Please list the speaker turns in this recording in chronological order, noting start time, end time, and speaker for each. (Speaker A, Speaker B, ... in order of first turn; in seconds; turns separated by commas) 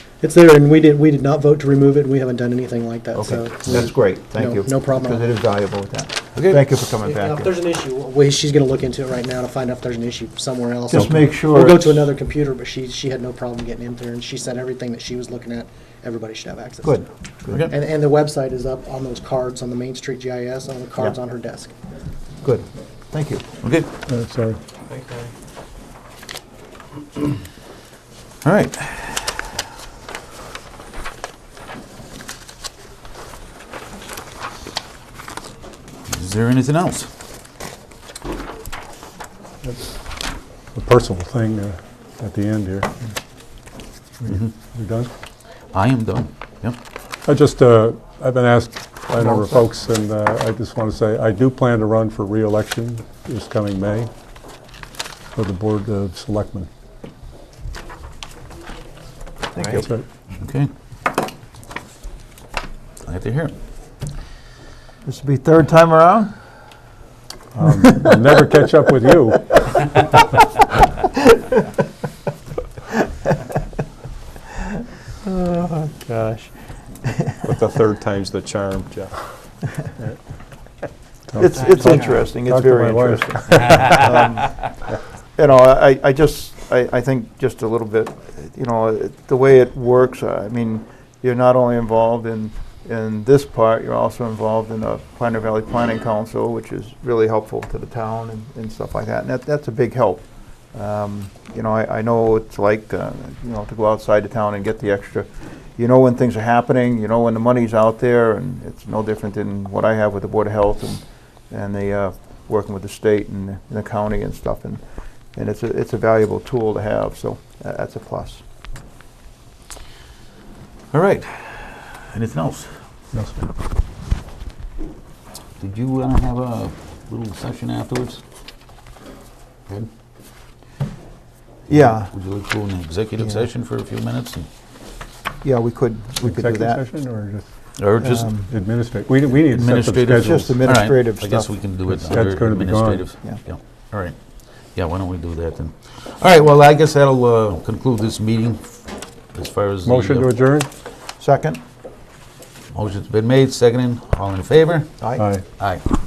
Speaker A: 0.2-5.2, Speaker B: 3.1-7.5, Speaker C: 6.3-6.6, Speaker A: 7.0-17.0, Speaker B: 10.9-12.1, Speaker B: 16.8-17.7, Speaker A: 17.7-21.7, Speaker B: 22.4-23.4, Speaker C: 23.6-23.9, Speaker D: 24.1-24.6, Speaker C: 28.4-29.4, Speaker C: 36.1-37.1, Speaker D: 39.6-40.0, Speaker D: 40.7-42.9, Speaker D: 44.2-45.1, Speaker C: 44.2-44.5, Speaker C: 45.7-46.8, Speaker D: 47.2-54.1, Speaker B: 49.1-49.7, Speaker D: 55.3-56.7, Speaker B: 59.5-59.9, Speaker D: 59.7-60.0, Speaker C: 60.4-60.7, Speaker C: 63.0-63.6, Speaker B: 65.0-66.4, Speaker D: 67.5-69.9, Speaker B: 75.4-76.0, Speaker E: 76.1-76.4, Speaker E: 77.4-79.3, Speaker D: 81.3-84.1, Speaker B: 81.3-84.7, Speaker A: 81.5-82.1, Speaker B: 85.3-114.8, Speaker B: 115.3-118.4, Speaker C: 120.9-122.8, Speaker D: 123.1-123.5, Speaker C: 125.6-128.2, Speaker C: 131.7-134.5, Speaker B: 131.7-132.1, Speaker B: 133.2-133.5, Speaker B: 135.4-136.8, Speaker D: 136.2-137.5, Speaker C: 137.8-138.3, Speaker B: 138.0-138.5, Speaker D: 138.4-140.5, Speaker C: 139.4-144.2, Speaker B: 140.1-141.5, Speaker D: 141.9-143.1, Speaker C: 144.7-150.3, Speaker D: 149.8-150.7, Speaker B: 151.2-151.6, Speaker C: 152.7-155.0, Speaker D: 155.2-155.4, Speaker C: 155.6-155.8